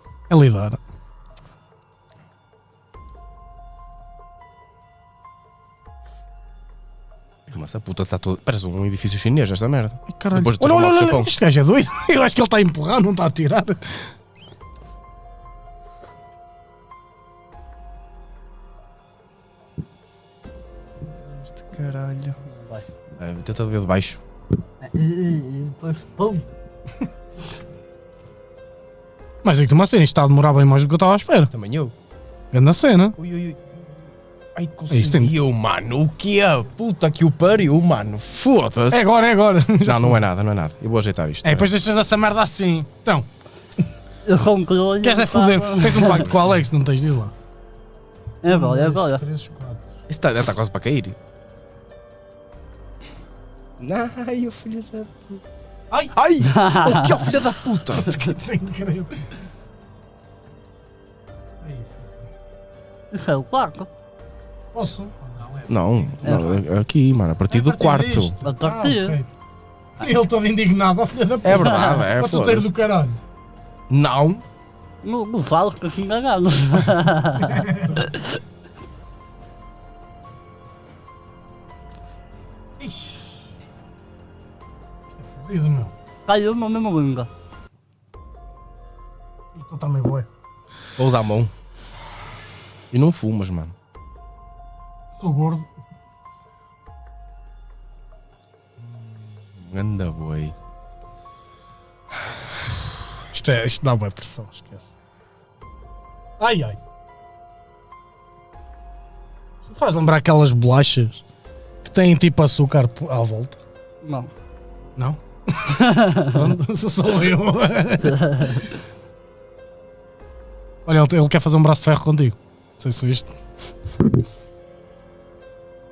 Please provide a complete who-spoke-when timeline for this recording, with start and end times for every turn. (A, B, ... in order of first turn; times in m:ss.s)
0:00.3-0:00.8 A
0:07.5-0:11.3 B
0:10.1-0:14.0 A
0:21.1-0:22.4 B
0:22.5-0:22.8 C
0:23.1-0:24.2 B
0:24.8-0:26.4 C
0:29.4-0:31.5 A
0:31.5-0:31.9 B
0:32.5-0:33.2 A
0:33.2-0:34.0 B
0:34.5-0:39.1 B
0:34.9-0:35.3 A
0:38.9-0:40.2 A
0:39.8-0:41.7 B
0:41.4-0:43.3 A
0:44.2-0:46.3 C
0:45.0-0:47.3 A
0:48.4-0:49.2 C
0:48.5-0:49.9 A
0:50.1-0:51.2 B
0:53.8-0:55.4 B
0:56.1-0:58.1 B
0:56.5-0:57.2 C
0:57.9-0:59.3 A
1:01.6-1:02.2 A
1:03.1-1:03.9 C
1:04.7-1:05.7 A
1:05.7-1:08.4 B
1:06.2-1:06.5 C
1:07.5-1:09.3 A
1:08.4-1:09.2 C
1:10.0-1:13.2 A
1:11.4-1:12.7 B
1:11.6-1:12.0 C
1:13.9-1:14.4 B
1:15.0-1:18.4 C
1:17.4-1:18.1 A
1:22.8-1:23.3 A
1:25.1-1:25.9 A
1:26.3-1:27.3 C
1:29.5-1:30.3 A
1:31.0-1:31.5 B
1:32.9-1:33.7 B
1:35.2-1:35.7 A
1:38.8-1:40.6 B
1:43.3-1:44.8 A
1:46.4-1:46.8 A
1:49.6-1:51.2 A
1:51.8-1:53.6 A
1:54.0-1:54.3 C
1:55.0-1:58.6 A
1:55.8-1:56.4 C
1:58.1-1:58.6 C
2:00.8-2:03.3 A